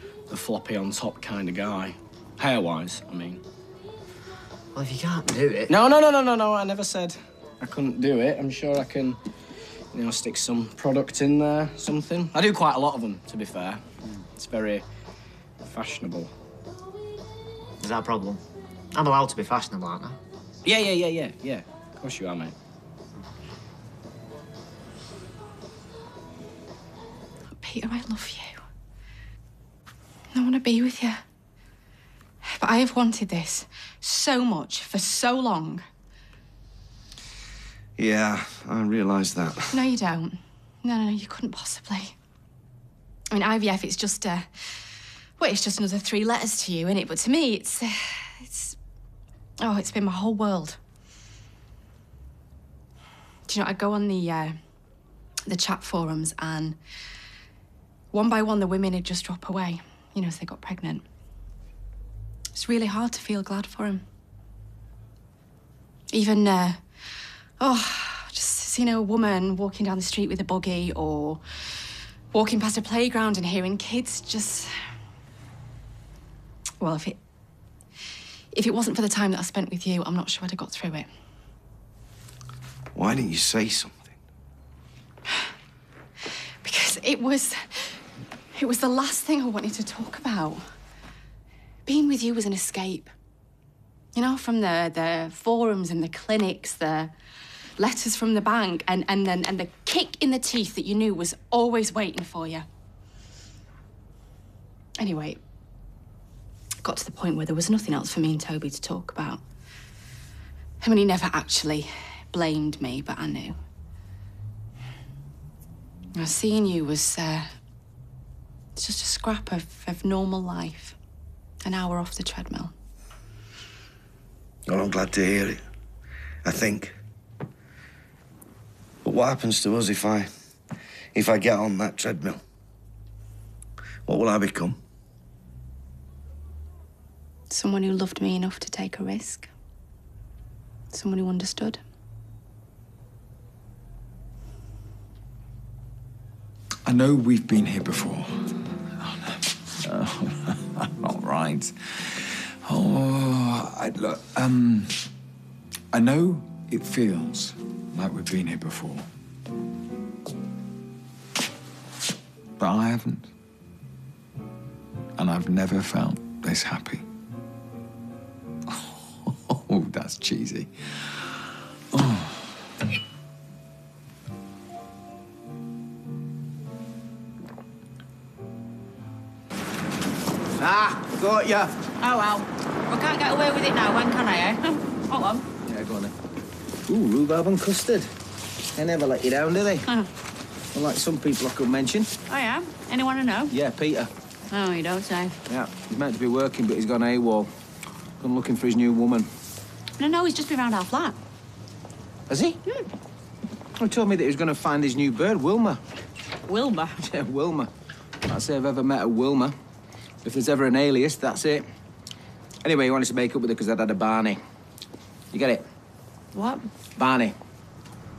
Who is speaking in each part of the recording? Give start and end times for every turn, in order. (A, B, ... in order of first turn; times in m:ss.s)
0:00.3-0:03.4 A
0:04.8-0:05.8 B
0:06.5-0:07.2 A
0:07.7-0:09.2 A
0:10.0-0:13.8 A
0:14.6-0:14.8 A
0:15.8-0:16.3 A
0:17.8-0:18.4 B
0:18.9-0:20.2 B
0:20.6-0:21.6 C
0:22.2-0:22.5 A
0:27.6-0:28.6 D
0:30.3-0:31.2 D
0:32.4-0:35.8 D
0:38.0-0:39.8 E
0:39.7-0:42.2 D
0:43.3-0:44.8 D
0:45.4-0:48.8 D
0:49.6-0:50.8 D
0:53.5-0:54.6 D
0:55.5-0:56.8 D
0:58.1-1:01.0 D
1:02.5-1:04.0 D
1:06.1-1:07.1 D
1:07.6-1:11.8 D
1:12.3-1:14.7 D
1:16.8-1:17.2 D
1:18.5-1:21.1 D
1:23.0-1:24.1 E
1:26.6-1:28.0 D
1:28.5-1:30.7 D
1:31.9-1:33.1 D
1:34.1-1:37.1 D
1:37.8-1:42.7 D
1:45.0-1:45.4 D
1:46.8-1:49.4 D
1:50.8-1:53.6 D
1:56.1-1:57.5 D
1:58.8-2:01.0 D
2:01.6-2:02.7 D
2:04.7-2:05.6 E
2:06.4-2:07.0 E
2:09.0-2:10.3 E
2:11.1-2:12.4 E
2:14.1-2:14.8 E
2:17.5-2:19.5 D
2:20.9-2:21.8 D
2:26.9-2:35.1 F
2:35.9-2:39.1 F
2:42.6-2:43.3 F
2:45.2-2:47.0 F
2:48.7-2:51.2 F
2:51.9-2:52.6 F
3:00.6-3:01.7 C
3:02.0-3:05.4 G
3:05.7-3:06.1 C
3:06.9-3:08.1 C
3:08.8-3:09.8 C
3:10.7-3:12.1 C
3:12.3-3:13.5 G
3:13.5-3:14.1 C
3:14.5-3:15.4 G
3:15.5-3:17.5 C
3:18.2-3:19.3 C
3:20.0-3:21.2 G
3:22.3-3:22.6 C
3:23.8-3:25.8 C
3:26.5-3:26.9 G
3:27.0-3:27.7 C
3:28.2-3:29.6 C
3:30.2-3:31.7 C
3:32.6-3:34.4 C
3:35.3-3:35.6 C
3:37.0-3:37.4 C